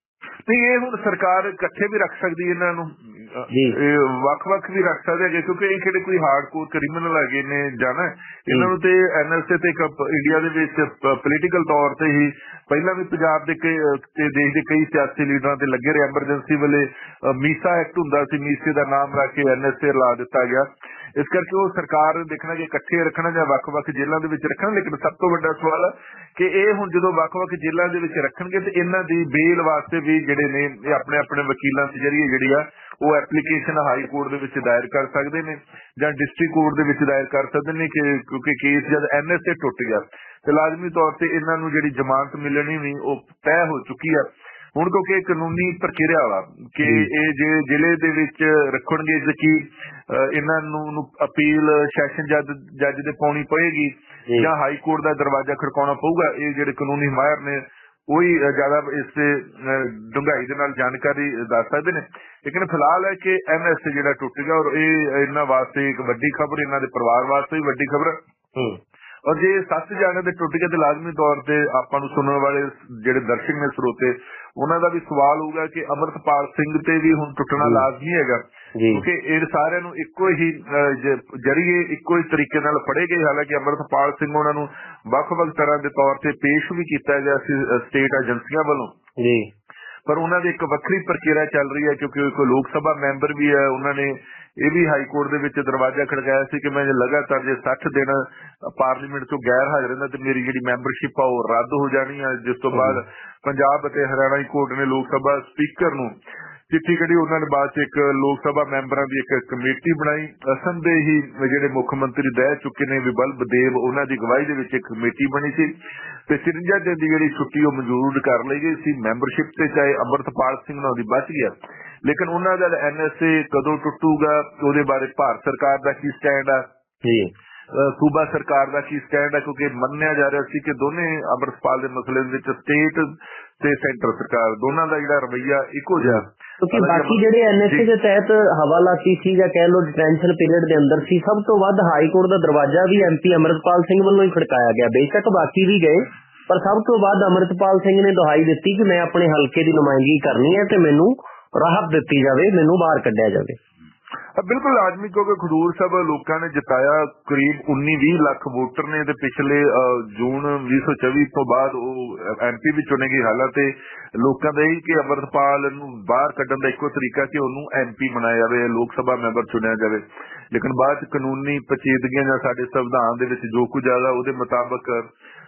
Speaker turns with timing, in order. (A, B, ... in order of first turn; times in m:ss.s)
0:00.5-1:08.2 A
0:03.5-0:03.8 B
0:46.8-0:47.1 B
1:09.3-1:18.4 A
1:17.6-1:17.9 B
1:18.8-1:19.0 B
1:18.9-1:28.9 A
1:29.2-1:29.5 B
1:30.1-1:46.1 A
1:42.7-1:43.0 B
1:46.7-1:55.7 A
1:56.3-2:06.6 A
2:07.0-2:07.3 B
2:07.7-2:17.9 A
2:16.0-2:33.6 B
2:34.4-2:55.1 A